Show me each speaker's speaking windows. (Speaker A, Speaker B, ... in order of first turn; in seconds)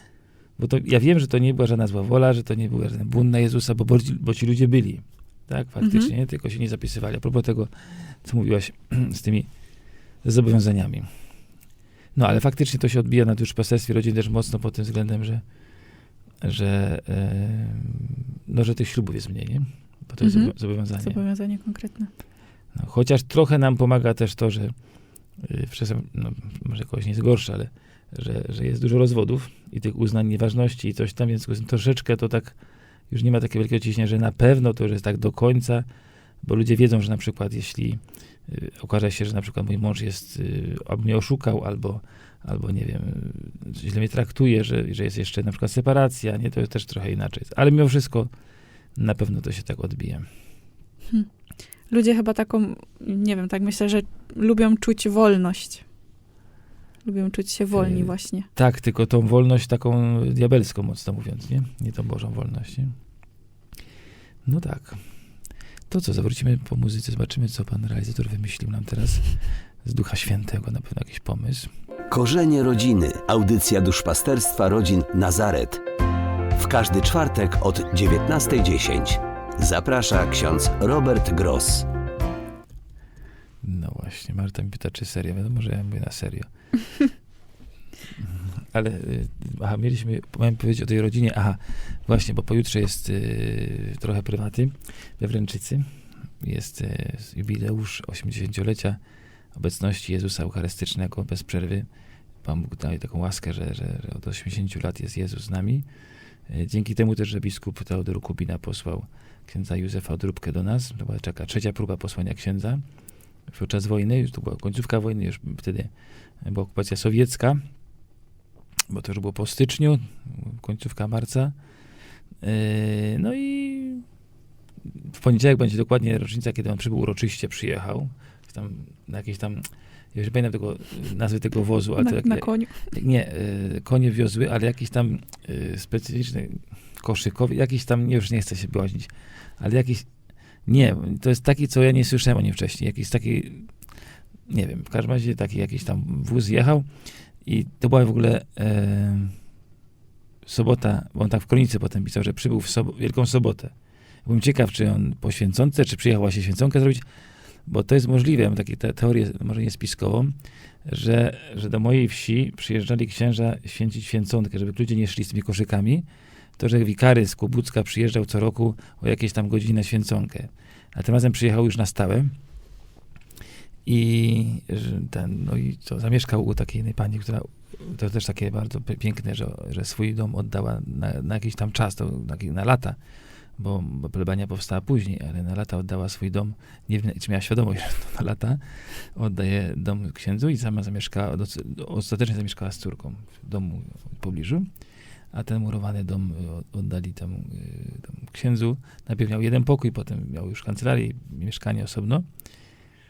Speaker A: 0.6-9.5, 10.2-11.1, 12.1-15.4, 16.4-21.2, 22.7-24.7, 25.4-32.5, 33.1-35.9, 36.4-48.3, 49.0-50.2, 57.7-62.9, 64.4-65.0, 65.9-69.3, 69.8-71.7, 83.6-86.5, 88.2-95.8, 96.4-99.0, 99.5-101.9, 102.4-105.8, 106.5-112.8, 113.5-115.9, 116.4-117.6, 118.9-121.5, 122.4-124.0, 124.9-140.1, 140.7-143.7, 144.5-146.9, 147.4-149.3, 150.4-153.7, 154.2-157.0, 157.7-166.1, 166.6-172.3, 173.8-183.0, 183.6-194.7, 195.3-202.2
Speaker B: 5.8-6.1, 20.2-22.1, 51.9-55.8, 57.0-58.5, 132.0-132.9
Speaker C: 72.1-75.8, 76.5-81.9